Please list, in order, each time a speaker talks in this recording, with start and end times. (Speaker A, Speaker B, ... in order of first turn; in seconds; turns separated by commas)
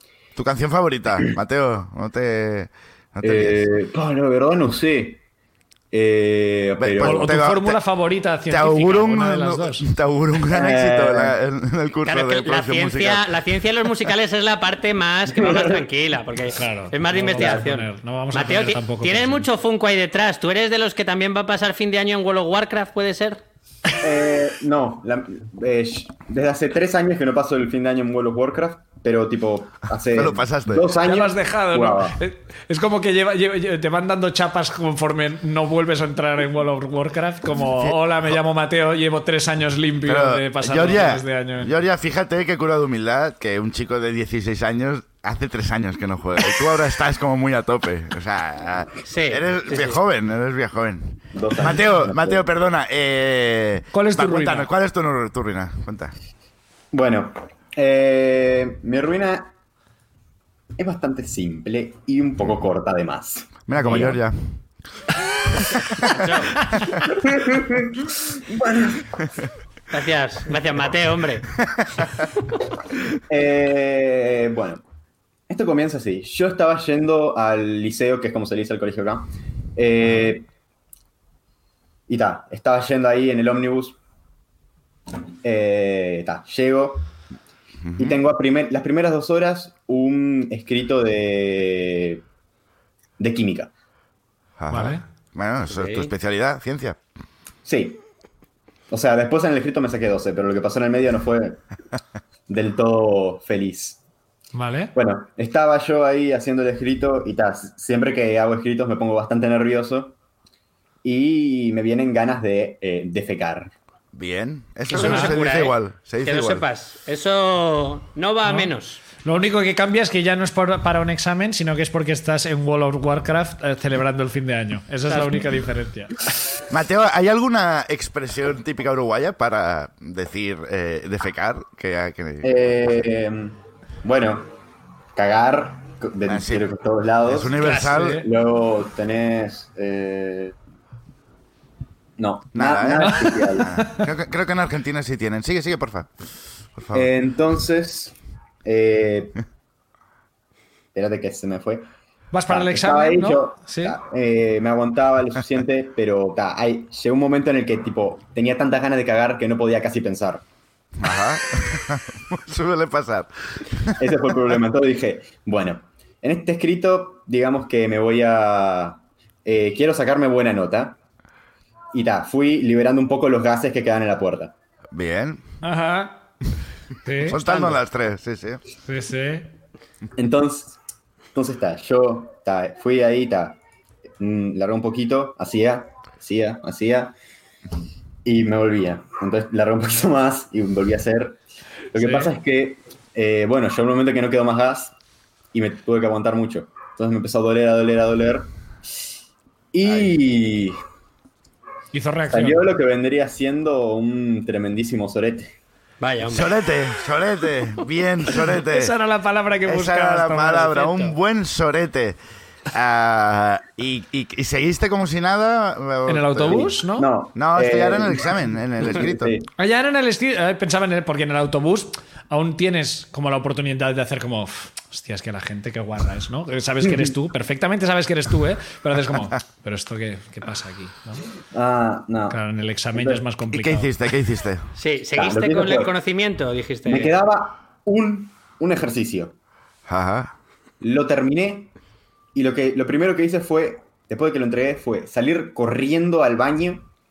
Speaker A: 0.3-3.6, Speaker B: 3.2-5.2, Speaker B: 5.9-7.3, Speaker A: 6.8-7.8, Speaker C: 7.0-9.9, Speaker A: 8.5-13.3, Speaker B: 10.5-11.4, Speaker D: 12.0-23.4, Speaker B: 15.4-15.8, Speaker C: 16.5-19.4, Speaker B: 24.0-32.2, Speaker A: 30.1-30.8, Speaker C: 31.0-41.7, Speaker A: 37.6-38.3, Speaker A: 40.0-56.1, Speaker D: 49.1-50.0, Speaker B: 51.3-52.4, Speaker C: 53.9-54.7, Speaker B: 56.9-59.5, Speaker B: 60.8-64.2, Speaker A: 63.7-64.4, Speaker C: 63.8-64.1, Speaker D: 65.9-66.6, Speaker B: 67.2-69.1, Speaker D: 69.9-71.5, Speaker B: 73.3-74.8, Speaker B: 75.5-80.5, Speaker B: 82.1-84.0, Speaker B: 85.4-87.1, Speaker A: 87.9-88.2, Speaker B: 88.0-92.2, Speaker B: 93.2-93.7, Speaker A: 94.6-97.0, Speaker C: 94.7-95.0, Speaker D: 95.7-96.1, Speaker B: 97.6-98.0, Speaker B: 98.9-101.6, Speaker B: 102.5-104.0, Speaker C: 104.5-104.9, Speaker B: 104.9-110.2, Speaker B: 111.0-113.7, Speaker A: 114.1-116.7, Speaker D: 114.9-119.0, Speaker C: 114.9-115.4, Speaker C: 118.4-118.7, Speaker C: 119.2-126.2, Speaker D: 125.1-125.4, Speaker A: 126.7-132.5, Speaker B: 132.4-134.5, Speaker B: 135.1-140.5, Speaker A: 136.3-136.6, Speaker A: 137.3-138.2, Speaker D: 137.6-138.1, Speaker B: 142.2-143.7, Speaker A: 142.5-146.1, Speaker C: 143.0-144.1, Speaker A: 146.7-147.1, Speaker B: 146.9-149.4, Speaker B: 150.9-151.9, Speaker C: 152.3-154.0, Speaker B: 152.5-160.4, Speaker A: 161.0-164.0, Speaker B: 164.0-171.0, Speaker B: 171.9-174.5, Speaker A: 174.9-175.4, Speaker C: 175.6-176.2, Speaker C: 177.0-177.4, Speaker A: 177.2-178.6, Speaker C: 178.8-179.5, Speaker B: 180.2-180.8, Speaker B: 181.3-183.6, Speaker B: 184.2-187.1, Speaker B: 188.2-191.4, Speaker B: 191.9-194.9, Speaker C: 191.9-192.3, Speaker B: 195.5-198.5, Speaker B: 199.7-200.8, Speaker A: 199.8-200.1, Speaker C: 201.9-202.7, Speaker B: 202.3-205.6, Speaker D: 206.0-206.5, Speaker A: 206.2-208.9, Speaker C: 208.6-211.1, Speaker A: 209.6-212.2, Speaker A: 212.7-216.6, Speaker C: 216.1-217.1, Speaker B: 216.5-219.5, Speaker A: 217.3-219.4, Speaker C: 219.6-231.2, Speaker B: 231.5-232.4, Speaker C: 232.3-233.9, Speaker B: 232.9-233.2, Speaker A: 233.5-234.6, Speaker D: 234.8-237.1, Speaker B: 235.1-235.9, Speaker B: 236.8-239.3, Speaker A: 239.9-240.3, Speaker B: 240.8-241.7, Speaker B: 242.3-246.9